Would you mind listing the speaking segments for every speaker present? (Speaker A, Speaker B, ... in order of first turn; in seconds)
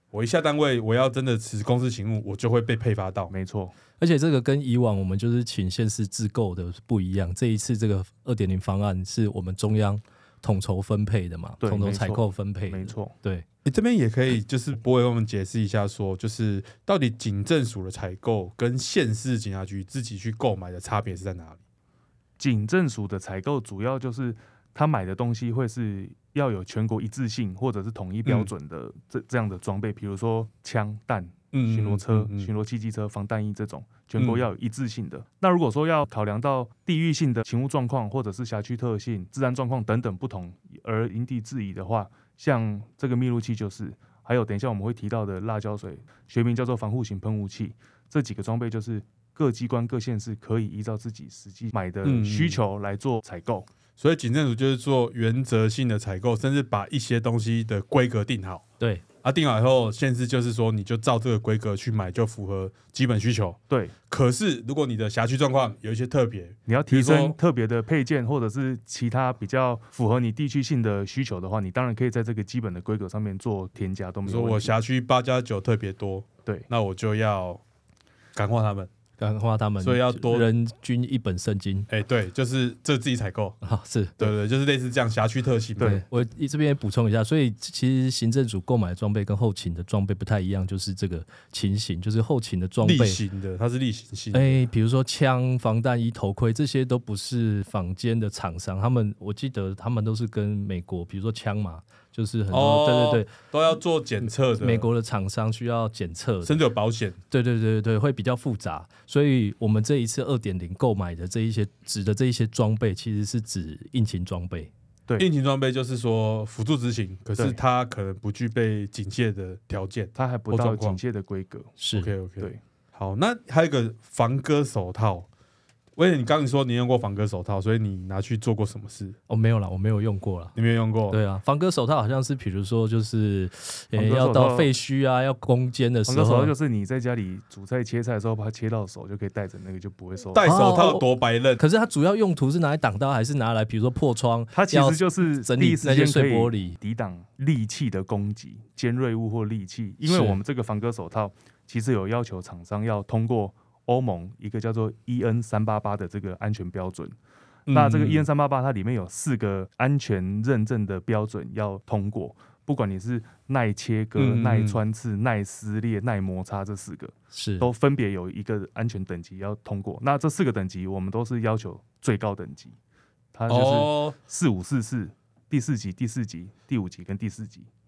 Speaker A: 0.1-3.3, 13.7-21.6, 28.2-28.5, 31.5-32.5, 34.2-34.5, 52.0-52.6, 54.0-58.6, 59.2-67.4, 74.2-77.6, 78.3-78.9, 79.8-80.5, 81.9-83.6, 84.2-86.0, 92.8-94.6, 102.5-104.9, 106.4-107.2, 115.2-121.0, 122.0-125.3, 126.0-129.2, 130.6-131.2, 140.3-141.6, 157.7-158.3, 164.2-164.8, 173.5-174.2
Speaker B: 3.3-3.8, 11.6-13.2, 22.4-53.7, 66.7-74.7, 120.2-121.8, 133.9-134.7, 136.1-140.6, 144.5-157.2, 157.7-172.8, 173.3-177.7
Speaker C: 4.0-13.4, 79.2-81.9, 83.6-84.1, 85.8-93.2, 94.3-103.3, 104.6-106.6, 107.3-114.7, 121.8-122.1, 129.3-130.6, 131.1-136.5, 140.4-146.8, 150.0-150.4, 167.3-167.7